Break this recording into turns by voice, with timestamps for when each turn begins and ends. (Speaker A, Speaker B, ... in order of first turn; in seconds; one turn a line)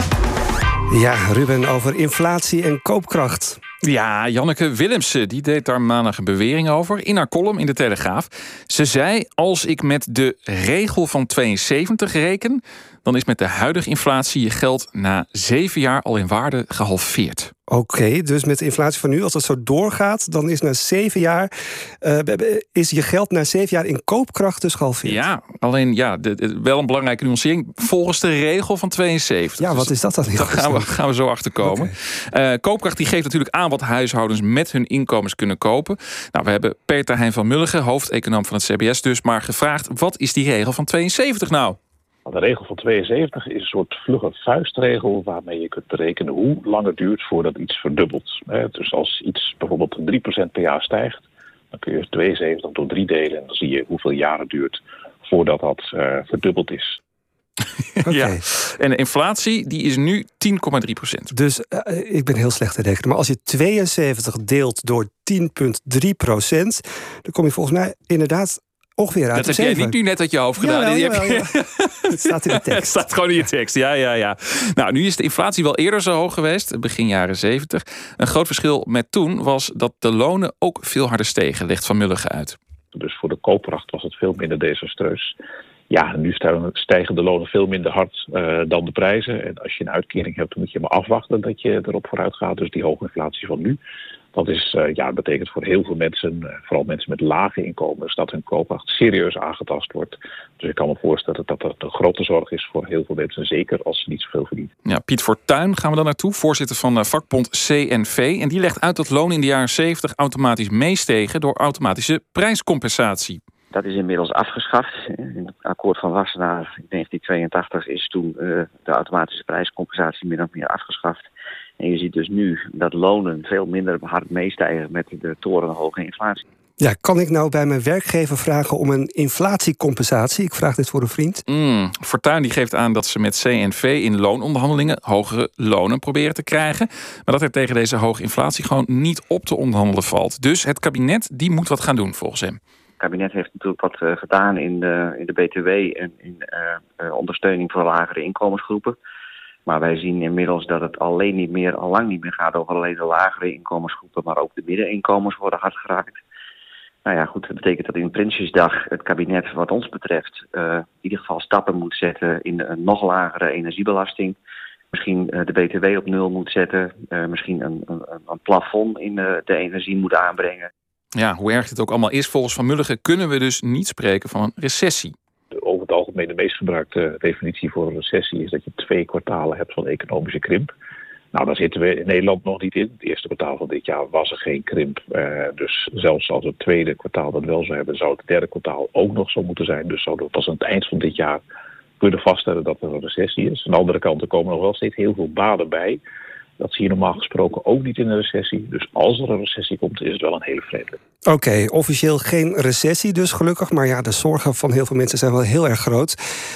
Speaker A: 0.9-3.6
Speaker B: 3.8-17.5
Speaker A: 17.7-21.5
Speaker A: 22.0-25.3
Speaker B: 25.1-41.8
Speaker A: 29.6-30.9
Speaker A: 31.6-31.9
Speaker C: 42.3-57.0
Speaker B: 58.0-61.3
Speaker A: 58.1-58.4
Speaker A: 61.3-70.0
Speaker B: 69.3-82.6
Speaker A: 70.6-71.5
Speaker A: 72.1-73.0
Speaker C: 82.9-85.3
Speaker C: 85.9-93.8
Speaker C: 94.3-104.7
Speaker B: 104.8-113.4
Speaker D: 113.7-121.3
Speaker D: 121.8-126.4
Speaker A: 126.8-131.4
Speaker B: 131.5-142.6
Speaker D: 143.0-148.9
Speaker D: 149.7-156.2
Speaker D: 157.1-164.4
Speaker D: 164.9-170.7
Speaker B: 171.2-175.1
Speaker C: 175.5-180.7
Speaker C: 181.3-191.4
Speaker C: 192.0-196.0
Speaker C: 196.6-201.0
Speaker A: 201.3-206.2